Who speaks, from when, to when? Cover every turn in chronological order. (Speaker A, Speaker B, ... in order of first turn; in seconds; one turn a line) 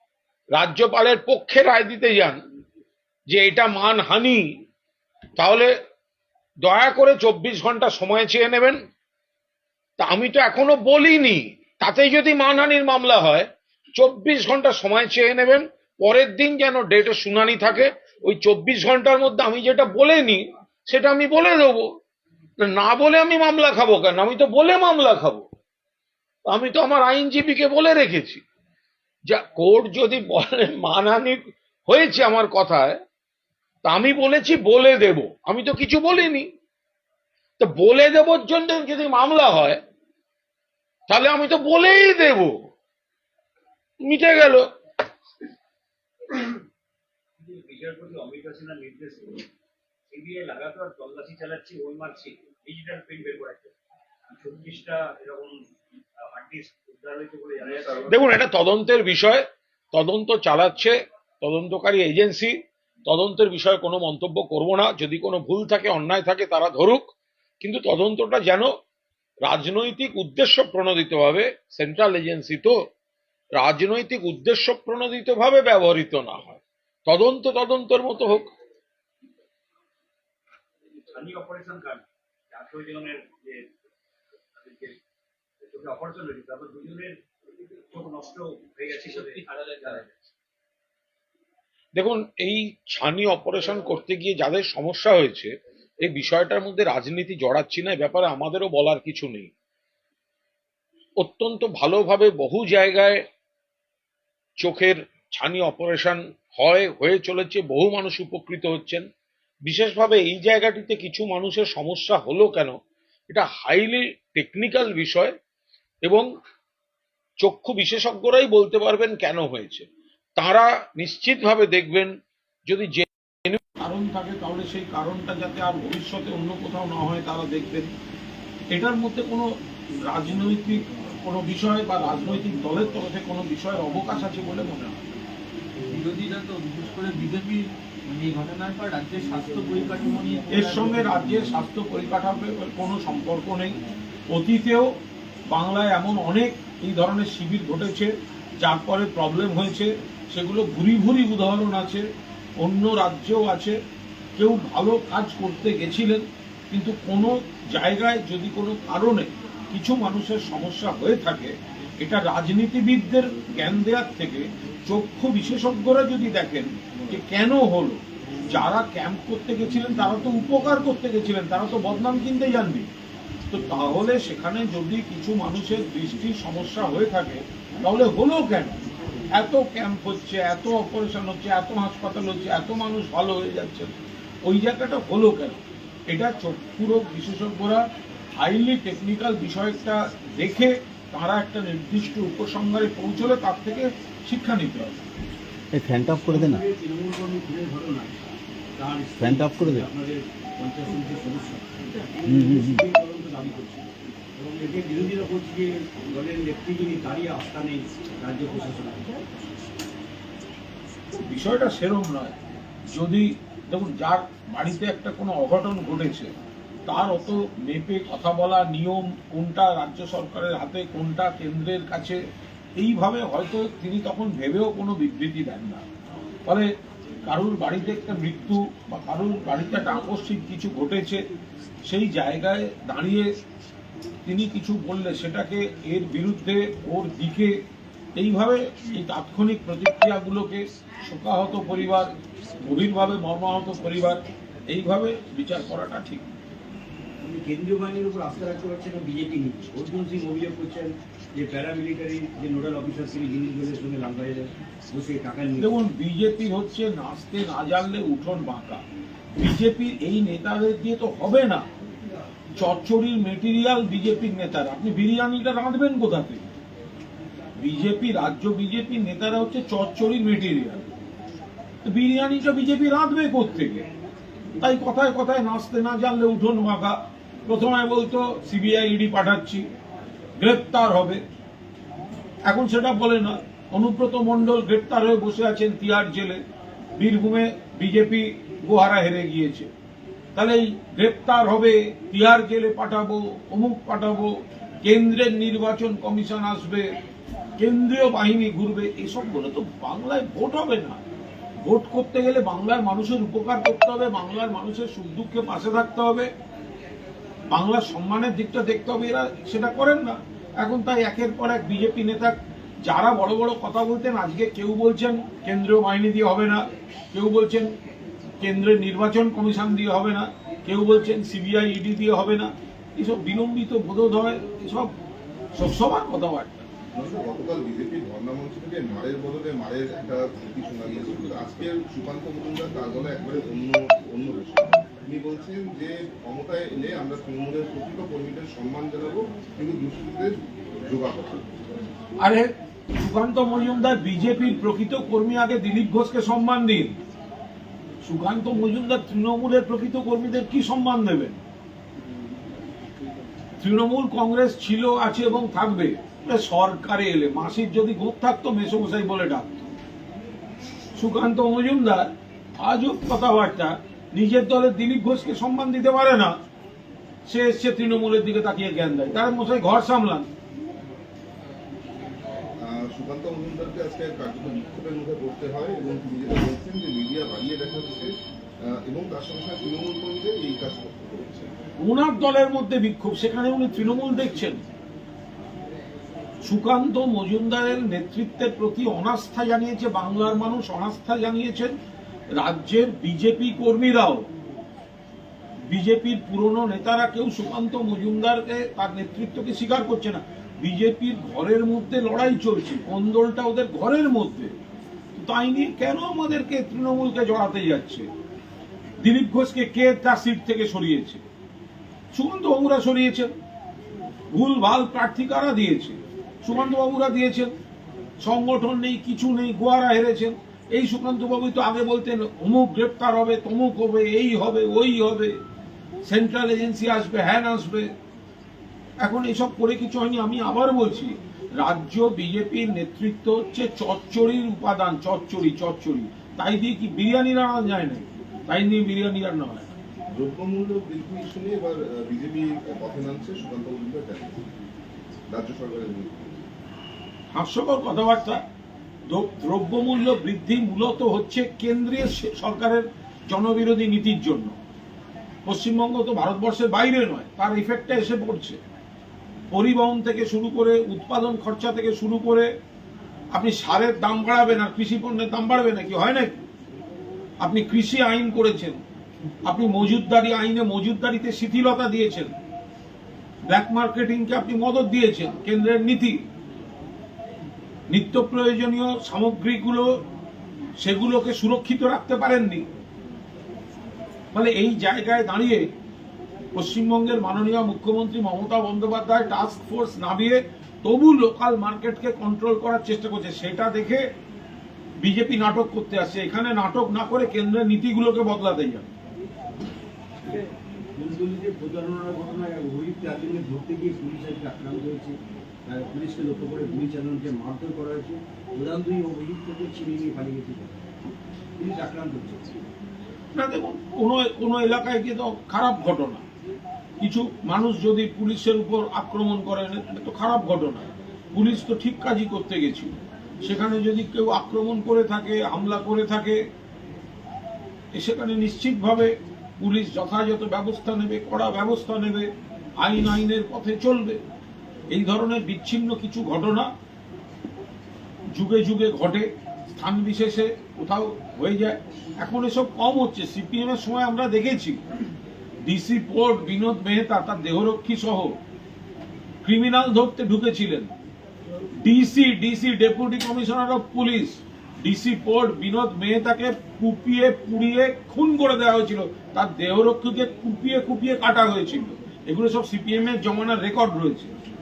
Speaker A: 0.6-2.4
Speaker A: 3.3-4.4
Speaker A: 5.4-5.7
Speaker A: 6.6-8.8
Speaker A: 10.0-13.5
Speaker A: 14.0-21.9
Speaker A: 22.6-25.5
Speaker A: 26.5-28.4
Speaker A: 29.3-33.0
Speaker A: 33.9-36.5
Speaker A: 37.6-39.8
Speaker A: 41.1-42.6
Speaker A: 44.0-44.7
Speaker B: 47.5-49.4
Speaker C: 47.6-49.2
Speaker B: 50.1-53.6
Speaker C: 50.1-53.6
Speaker B: 54.4-55.5
Speaker C: 54.4-55.5
Speaker B: 56.4-58.2
Speaker C: 56.4-58.1
Speaker A: 58.1-67.1
Speaker A: 67.6-68.7
Speaker A: 69.5-72.8
Speaker A: 73.6-78.5
Speaker B: 81.2-82.0
Speaker C: 81.4-81.9
Speaker B: 82.5-83.5
Speaker C: 82.6-83.2
Speaker B: 84.6-84.9
Speaker B: 85.7-87.2
Speaker C: 85.8-87.1
Speaker B: 87.9-90.1
Speaker C: 88.0-90.0
Speaker A: 92.0-95.5
Speaker A: 96.0-99.5
Speaker A: 101.2-103.2
Speaker A: 104.6-109.1
Speaker A: 109.7-112.8
Speaker A: 113.3-115.3
Speaker A: 117.4-122.1
Speaker A: 122.7-127.9
Speaker A: 128.7-129.5
Speaker A: 130.1-135.0
Speaker D: 135.9-140.9
Speaker A: 140.5-143.8
Speaker A: 144.3-144.9
Speaker A: 145.5-152.1
Speaker A: 152.6-153.8
Speaker A: 154.4-172.9
Speaker A: 173.5-178.8
Speaker A: 179.3-183.9
Speaker A: 184.4-185.6
Speaker A: 186.1-187.9
Speaker A: 188.4-195.0
Speaker E: 195.7-196.6
Speaker C: 196.2-198.2
Speaker C: 198.8-209.2
Speaker E: 199.2-199.9
Speaker E: 202.3-202.8
Speaker A: 211.2-212.4
Speaker A: 212.9-216.3
Speaker A: 216.9-222.2
Speaker A: 222.8-225.8
Speaker A: 227.3-231.2
Speaker A: 231.9-233.3
Speaker A: 234.2-237.5
Speaker A: 238.2-242.1
Speaker A: 242.6-246.3
Speaker C: 247.2-255.8
Speaker A: 255.6-258.8
Speaker A: 259.4-261.7
Speaker A: 262.6-266.5
Speaker A: 267.6-270.9
Speaker A: 271.9-273.8
Speaker A: 274.6-279.7
Speaker A: 280.4-281.2
Speaker A: 282.5-286.4
Speaker A: 287.0-289.7
Speaker A: 290.4-294.3
Speaker A: 294.8-296.9
Speaker A: 297.6-301.0
Speaker A: 301.6-306.3
Speaker A: 307.5-312.3
Speaker A: 312.9-317.7
Speaker A: 318.4-324.9
Speaker A: 325.6-326.6
Speaker F: 326.9-341.5
Speaker A: 342.2-347.0
Speaker A: 348.0-351.4
Speaker A: 353.6-359.7
Speaker A: 360.9-366.4
Speaker A: 367.2-370.3
Speaker F: 372.6-381.5
Speaker A: 381.8-384.6
Speaker A: 386.4-391.8
Speaker A: 392.3-394.3
Speaker A: 395.6-404.5
Speaker A: 405.1-408.1
Speaker A: 409.0-411.2
Speaker A: 412.1-413.3
Speaker A: 414.3-417.5
Speaker A: 418.2-425.4
Speaker A: 426.0-427.9
Speaker A: 429.0-439.7
Speaker F: 440.1-444.4
Speaker F: 445.3-446.4
Speaker A: 447.3-448.4
Speaker A: 449.1-454.5
Speaker A: 455.5-458.6
Speaker A: 459.5-462.5
Speaker A: 463.3-466.4
Speaker A: 467.4-468.8
Speaker A: 469.5-472.3
Speaker A: 473.5-476.2
Speaker A: 477.9-479.9
Speaker A: 480.8-482.7
Speaker A: 484.3-485.7
Speaker A: 486.5-494.1
Speaker A: 495.0-498.9
Speaker C: 500.2-510.8
Speaker C: 511.6-512.6
Speaker A: 513.4-516.2
Speaker A: 517.0-526.4
Speaker A: 528.0-534.2
Speaker A: 534.9-536.7
Speaker A: 538.4-544.8
Speaker A: 545.6-548.4
Speaker A: 549.4-550.9
Speaker A: 551.8-564.3